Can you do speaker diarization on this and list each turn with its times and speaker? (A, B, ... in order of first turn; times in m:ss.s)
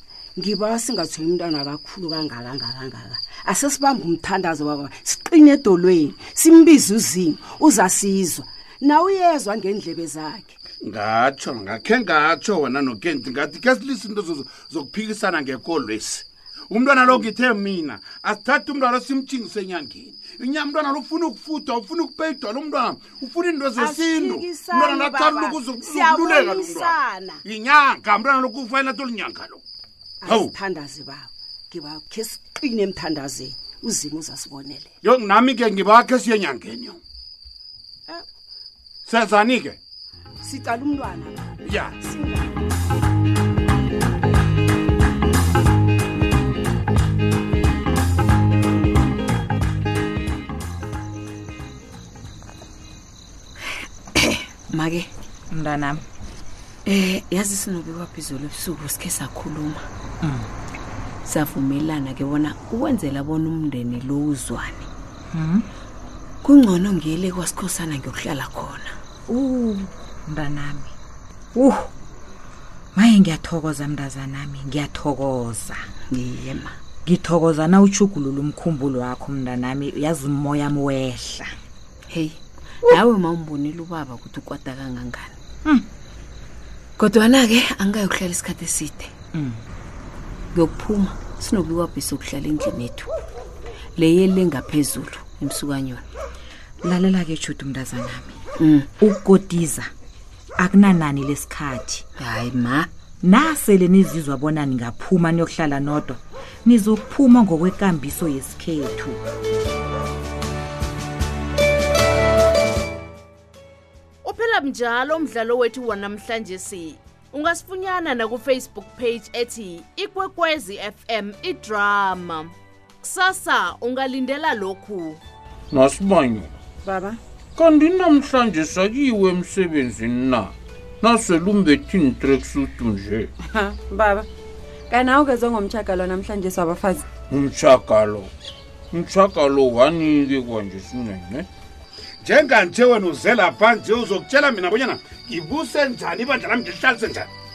0:00.4-0:10.6 A
0:10.8-0:29.6 B
0:23.8-0:27.4 A
0:30.2-0:34.9 A
0:30.3-0:30.5 B
0:35.0-0:37.0 B
0:39.1-0:39.8 B
0:40.4-0:42.6 A
0:41.7-0:42.0 B
0:54.2-0:55.1 C
0:55.5-0:56.0 D
0:56.9-0:59.9 C
1:00.2-1:00.5 D
1:01.2-1:04.9 C
1:05.3-1:05.7 D
1:06.4-1:08.9 C
1:09.3-1:10.9 D
1:11.6-1:11.9 D
1:13.0-1:15.8 D
1:16.1-1:16.7 C
1:17.1-1:21.5 D
1:22.1-1:25.3 C
1:27.0-1:29.1 C
1:29.4-1:29.6 D
1:30.6-1:33.1 C
1:34.0-1:36.0 C
1:36.8-1:38.4 D
1:38.6-1:38.9 C
1:39.0-1:39.9 D
1:40.6-1:42.0 D
1:42.2-1:42.9 C
1:43.2-1:49.2 D
1:54.2-2:05.2 E
2:05.7-2:06.5 F
2:06.8-2:07.2 G
2:07.6-2:13.3 F
2:13.5-2:14.3 G
2:14.9-2:17.0 G
2:17.3-2:18.3 F
2:18.9-2:21.5 F
2:22.2-2:27.3 B